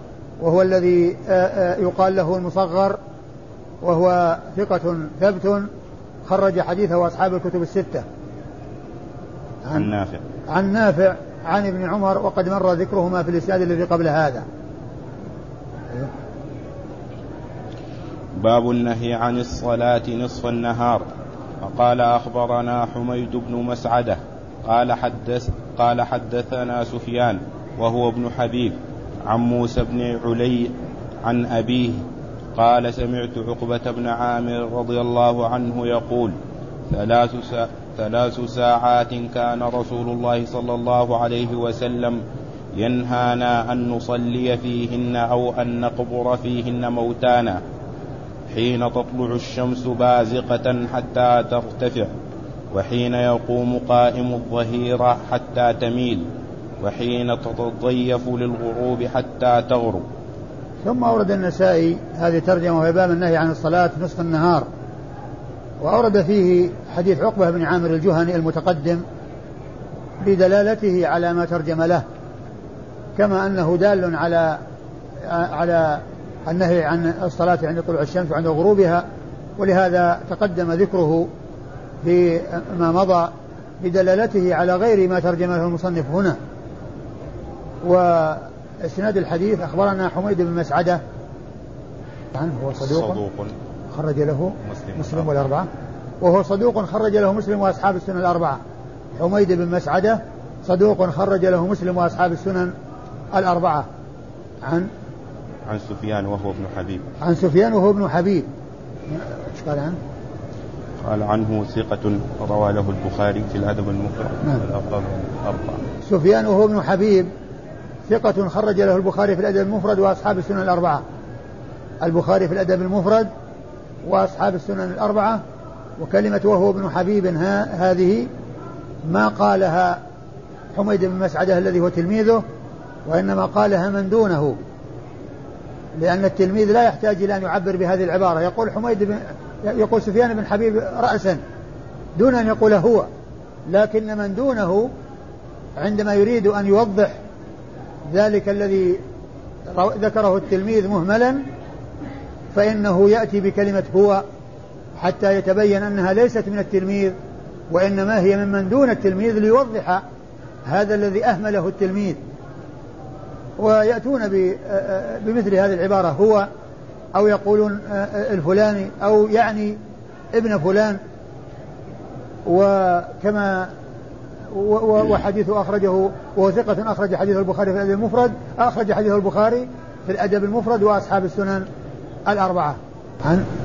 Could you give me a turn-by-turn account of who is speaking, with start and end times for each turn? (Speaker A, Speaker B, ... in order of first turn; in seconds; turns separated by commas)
Speaker A: 0.4-3.0, Speaker A: 3.8-5.7, Speaker A: 6.2-8.0, Speaker B: 9.7-10.2, Speaker A: 10.5-14.4, Speaker B: 18.4-21.0, Speaker B: 21.6-32.0, Speaker B: 32.5-36.3, Speaker B: 36.9-42.2, Speaker B: 42.7-47.6, Speaker B: 48.5-52.1, Speaker B: 52.7-56.2, Speaker B: 56.8-60.0, Speaker A: 60.8-64.7, Speaker A: 65.8-69.0, Speaker A: 70.2-72.0, Speaker A: 73.2-74.6, Speaker A: 75.2-79.0, Speaker A: 79.6-81.3, Speaker A: 82.0-86.4, Speaker A: 87.8-91.0, Speaker A: 92.3-93.2, Speaker B: 92.8-93.5, Speaker A: 93.9-95.7, Speaker B: 94.6-95.3, Speaker A: 96.2-98.6, Speaker A: 99.2-102.7, Speaker A: 103.3-103.9, Speaker A: 104.6-104.9, Speaker B: 105.7-107.0, Speaker A: 107.2-108.5, Speaker A: 109.1-110.0, Speaker B: 111.0-115.8, Speaker A: 116.0-117.3, Speaker A: 118.1-121.0, Speaker A: 122.0-123.3, Speaker A: 124.0-125.4, Speaker A: 126.0-128.3, Speaker A: 129.0-130.0, Speaker A: 130.7-132.4, Speaker A: 133.0-134.6, Speaker A: 136.0-141.4, Speaker A: 142.2-143.1, Speaker A: 143.7-144.9, Speaker A: 145.8-147.1, Speaker A: 148.1-149.0, Speaker A: 149.7-151.4, Speaker A: 152.5-154.2, Speaker A: 154.9-157.2, Speaker A: 157.7-160.0, Speaker A: 160.7-162.2, Speaker A: 163.6-166.5, Speaker A: 167.1-169.8, Speaker A: 170.3-171.0, Speaker A: 172.4-173.7, Speaker A: 174.5-181.7, Speaker A: 182.3-183.4